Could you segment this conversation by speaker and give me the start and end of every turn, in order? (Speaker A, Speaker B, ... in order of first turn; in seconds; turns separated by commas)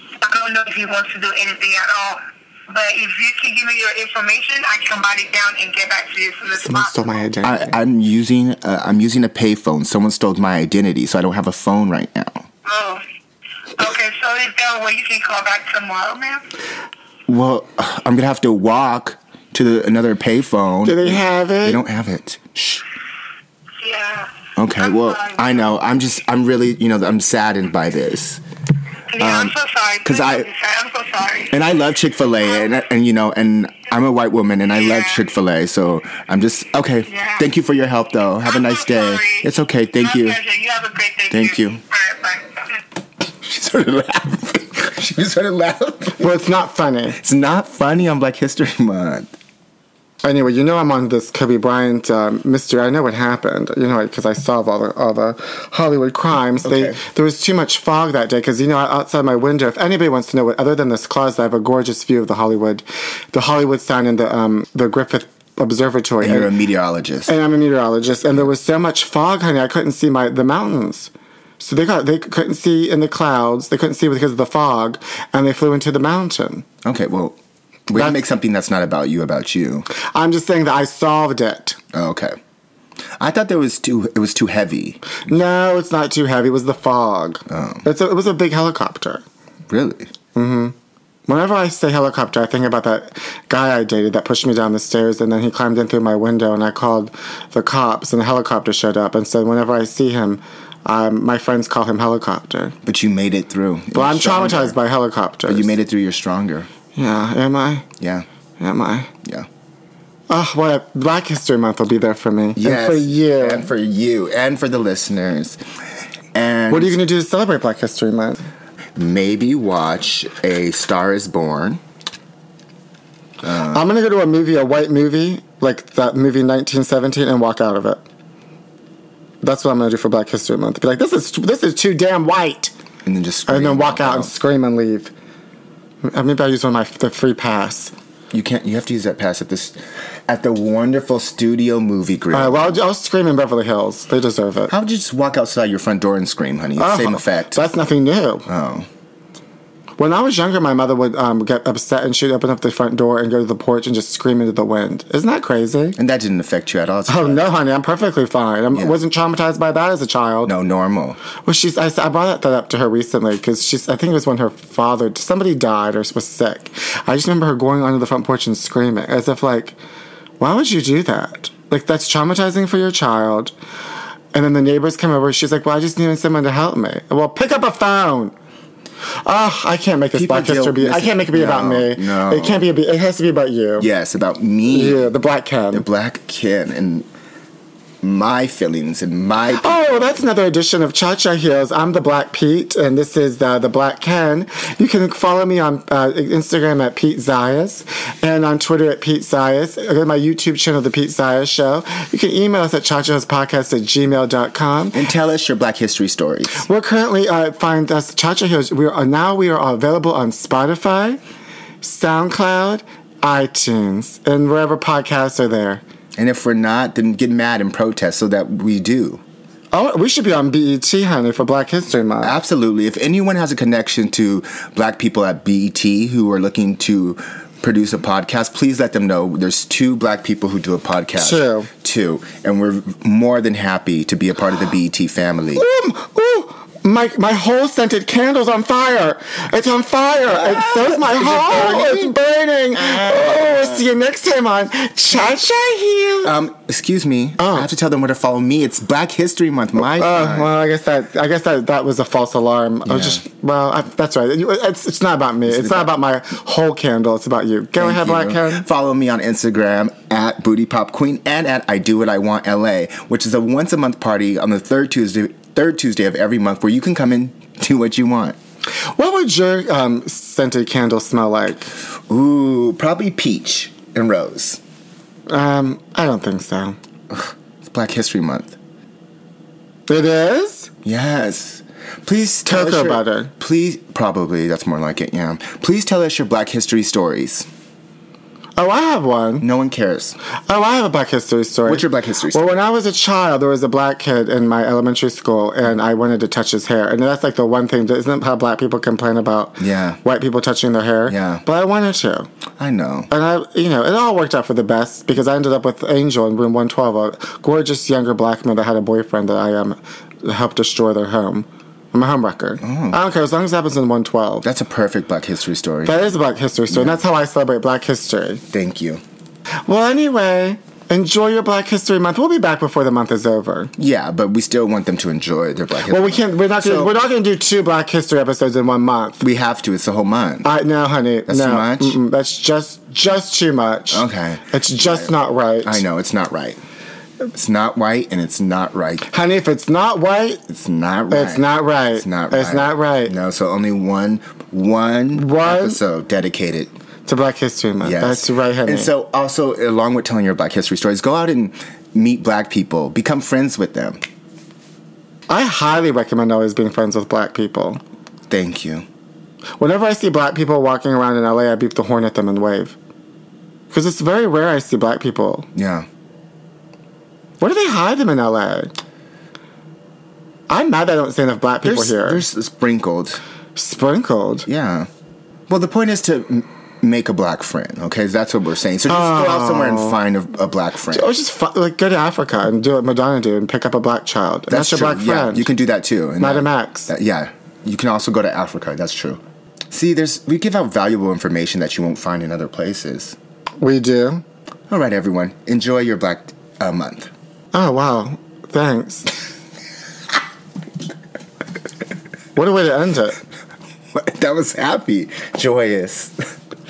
Speaker A: 0.2-7.2, Speaker B: 6.5-7.8, Speaker C: 7.4-12.5, Speaker A: 12.7-13.0, Speaker A: 13.8-16.4, Speaker C: 17.3-22.9, Speaker B: 20.8-21.8, Speaker A: 23.8-25.7, Speaker C: 24.6-28.4, Speaker A: 29.1-31.6, Speaker C: 29.2-30.5, Speaker C: 31.5-40.4, Speaker A: 34.8-35.2, Speaker A: 37.1-37.5, Speaker A: 38.5-42.7, Speaker C: 41.3-41.8, Speaker C: 43.2-46.3, Speaker B: 46.2-47.2, Speaker C: 47.2-49.3, Speaker B: 50.2-66.6, Speaker C: 56.6-57.0, Speaker C: 66.2-67.3, Speaker B: 67.3-76.7, Speaker C: 76.8-77.4, Speaker C: 77.9-79.9, Speaker B: 79.9-81.8, Speaker C: 81.9-82.4, Speaker C: 83.2-85.0, Speaker B: 85.3-89.2, Speaker C: 87.5-87.8, Speaker C: 89.7-90.1, Speaker B: 90.3-90.8, Speaker B: 91.3-102.8, Speaker C: 102.8-104.8, Speaker B: 103.9-105.8, Speaker C: 105.5-106.7, Speaker B: 107.0-107.9, Speaker C: 108.0-108.3, Speaker B: 108.6-109.1, Speaker B: 110.3-113.7, Speaker C: 112.6-115.6, Speaker C: 116.3-117.0, Speaker B: 116.7-118.4, Speaker C: 119.0-121.8, Speaker C: 123.4-123.8, Speaker B: 123.7-128.0, Speaker B: 129.4-132.7, Speaker C: 133.1-134.3, Speaker B: 133.5-135.1, Speaker B: 136.0-137.9, Speaker C: 138.3-142.8, Speaker B: 142.3-144.7, Speaker C: 144.7-147.6, Speaker B: 146.8-148.5, Speaker C: 148.5-148.9, Speaker B: 150.0-156.0, Speaker C: 156.0-157.5, Speaker B: 157.1-160.5, Speaker C: 158.7-159.0, Speaker C: 160.4-161.2, Speaker B: 161.4-169.8, Speaker B: 170.4-173.5, Speaker B: 174.3-178.3, Speaker B: 179.2-183.9, Speaker C: 180.1-182.7, Speaker C: 183.8-185.1, Speaker B: 184.7-185.8, Speaker C: 185.7-187.1, Speaker C: 188.0-190.2, Speaker B: 189.5-205.0, Speaker C: 204.9-206.7, Speaker B: 206.6-211.2, Speaker B: 211.8-215.8, Speaker C: 216.2-219.2, Speaker B: 219.7-222.4, Speaker C: 222.2-235.6, Speaker B: 231.2-231.7, Speaker B: 235.6-246.4, Speaker C: 240.3-242.1, Speaker C: 242.8-243.8, Speaker C: 246.2-250.5, Speaker B: 247.4-247.7, Speaker B: 249.8-258.6, Speaker C: 252.9-253.2, Speaker C: 255.5-255.9, Speaker C: 257.8-268.4, Speaker B: 268.9-271.7, Speaker C: 272.1-274.6, Speaker B: 275.3-276.8, Speaker C: 277.1-278.6, Speaker B: 279.9-280.7, Speaker C: 280.8-287.5, Speaker B: 282.5-283.3, Speaker B: 288.6-289.5, Speaker C: 289.4-290.2, Speaker B: 290.5-302.3, Speaker C: 291.7-292.5, Speaker C: 299.6-300.0, Speaker C: 301.1-301.4, Speaker C: 302.6-303.1, Speaker B: 303.1-314.5, Speaker C: 312.6-313.0, Speaker C: 314.4-316.1, Speaker B: 315.9-318.4, Speaker C: 316.7-317.0, Speaker C: 318.5-319.0, Speaker B: 319.7-323.7, Speaker C: 323.8-326.9, Speaker B: 325.9-329.2, Speaker C: 329.2-330.5, Speaker B: 330.4-335.8, Speaker C: 331.3-332.0, Speaker C: 333.9-336.6, Speaker C: 337.3-339.1, Speaker B: 339.1-340.4, Speaker C: 340.5-346.7, Speaker B: 341.1-343.1, Speaker B: 345.1-345.8, Speaker B: 347.1-348.9, Speaker C: 347.8-354.0, Speaker B: 355.3-357.8, Speaker C: 358.3-358.9, Speaker B: 359.6-362.8, Speaker B: 363.7-365.5, Speaker C: 365.6-365.9, Speaker B: 367.4-368.7, Speaker B: 370.5-372.2, Speaker C: 371.6-373.2, Speaker B: 373.6-374.5, Speaker C: 374.5-374.9, Speaker C: 375.5-381.1, Speaker B: 378.9-380.0, Speaker B: 380.9-385.5, Speaker C: 384.5-393.2, Speaker B: 386.2-386.9, Speaker B: 393.6-394.2, Speaker C: 394.7-397.1, Speaker B: 397.5-399.1, Speaker B: 402.4-403.2, Speaker C: 403.9-406.3